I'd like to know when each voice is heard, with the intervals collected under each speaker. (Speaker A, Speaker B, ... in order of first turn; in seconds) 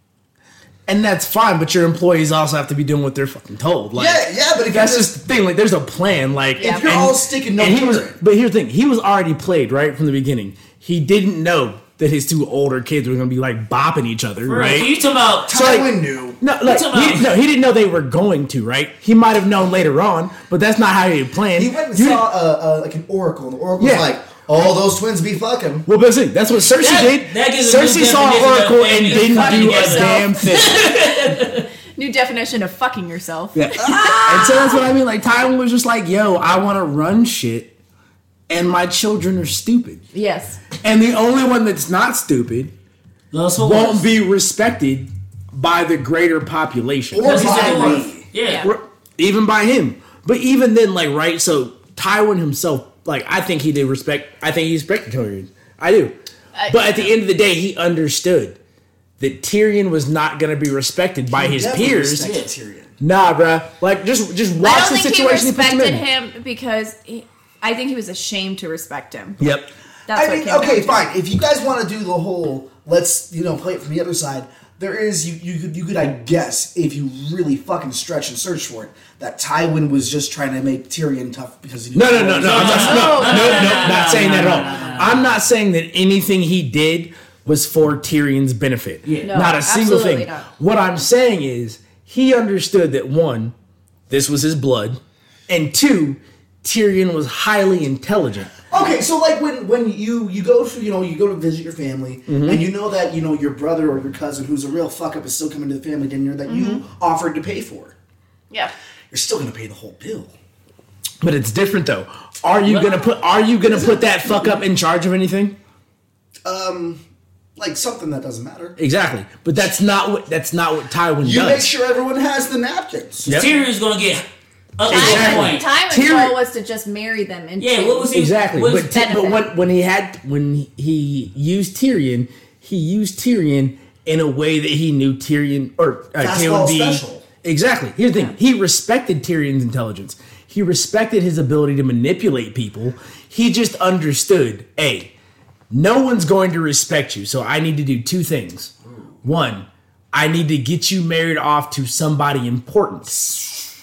Speaker A: 0.9-14.9, 15.5-22.2, 23.8-24.1, 25.9-30.9, 33.5-37.7, 38.5-40.0, 40.8-42.7, 43.6-48.0, 48.6-56.2, 56.7-58.6, 59.2-62.3, 63.0-66.0, 69.4-69.7, 82.0-93.5, 94.1-98.5, 102.3-102.6, 111.2-115.5, 118.8-121.7, 123.3-123.5, 124.9-126.4, 128.1-145.1, 145.7-148.7, 149.2-153.4
Speaker B: 4.0-5.1, 6.6-8.2, 15.5-16.4, 21.5-25.9, 47.1-48.3, 61.3-63.0, 70.1-83.2, 98.7-108.0, 109.1-110.3, 112.7-113.0, 113.6-114.6, 116.4-117.0, 117.6-118.8, 121.2-123.3, 136.2-137.3, 148.8-149.1
Speaker C: 6.6-6.9, 29.3-31.4, 32.0-34.9, 40.1-40.6, 48.4-48.7, 56.5-57.1, 64.6-69.4, 70.1-71.1, 82.6-85.0, 89.2-90.5, 106.5-106.8, 124.9-129.5
Speaker D: 14.4-15.5, 16.6-17.3, 26.8-31.7, 43.3-44.1, 47.2-48.7, 62.2-62.5, 82.3-85.2, 89.0-89.3, 123.3-124.2, 124.8-125.7, 127.6-128.9